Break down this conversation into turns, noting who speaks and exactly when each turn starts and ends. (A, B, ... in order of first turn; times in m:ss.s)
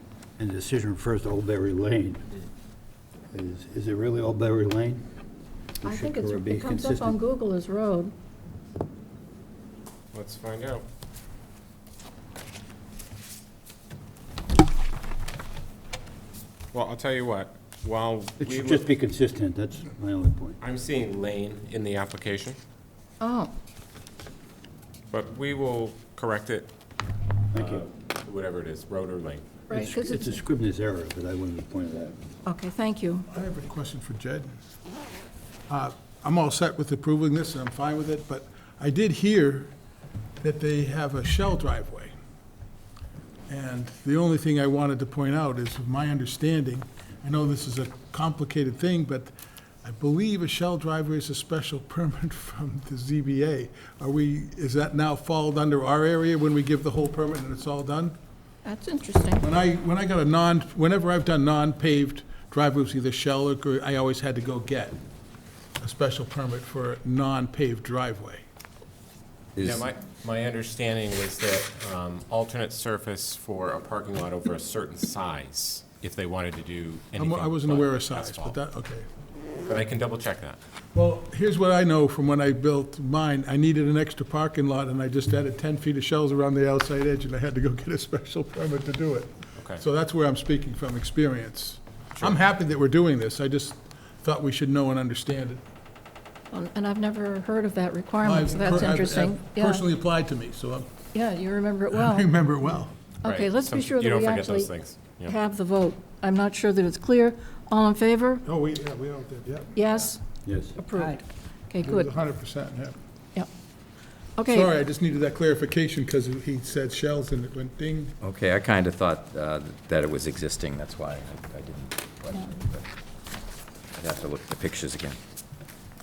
0:00.4-0:02.3 A
0:03.3-0:05.0 A
0:05.8-0:08.1 B
0:05.8-0:07.2 A
0:10.1-0:10.8 C
0:16.7-0:18.9 C
0:18.4-0:20.6 A
0:20.6-0:22.6 C
0:23.2-0:23.5 B
0:25.1-0:26.7 C
0:27.5-0:27.9 A
0:27.5-0:29.4 C
0:29.7-0:30.4 B
0:29.7-0:32.2 A
0:32.4-0:33.3 B
0:33.3-0:34.5 D
0:35.7-0:39.7 D
0:40.4-0:42.1 D
0:43.5-0:49.3 D
0:49.8-0:58.2 D
0:58.6-0:59.5 B
0:59.4-1:05.0 D
1:05.8-1:08.4 D
1:09.6-1:09.8 E
1:09.6-1:18.6 C
1:17.2-1:19.1 D
1:19.7-1:20.6 C
1:20.9-1:35.6 D
1:36.5-1:39.8 B
1:38.2-1:40.9 D
1:41.1-1:42.3 B
1:41.9-1:43.0 D
1:43.2-1:44.7 B
1:43.2-1:45.4 C
1:45.2-1:48.4 B
1:48.4-1:49.9 D
1:49.7-1:50.2 B
1:50.5-1:50.8 A
1:50.8-1:52.1 B
1:51.8-1:53.0 D
1:54.4-1:54.7 B
1:54.5-1:58.2 D
1:58.2-2:02.9 E
2:04.0-2:05.2 E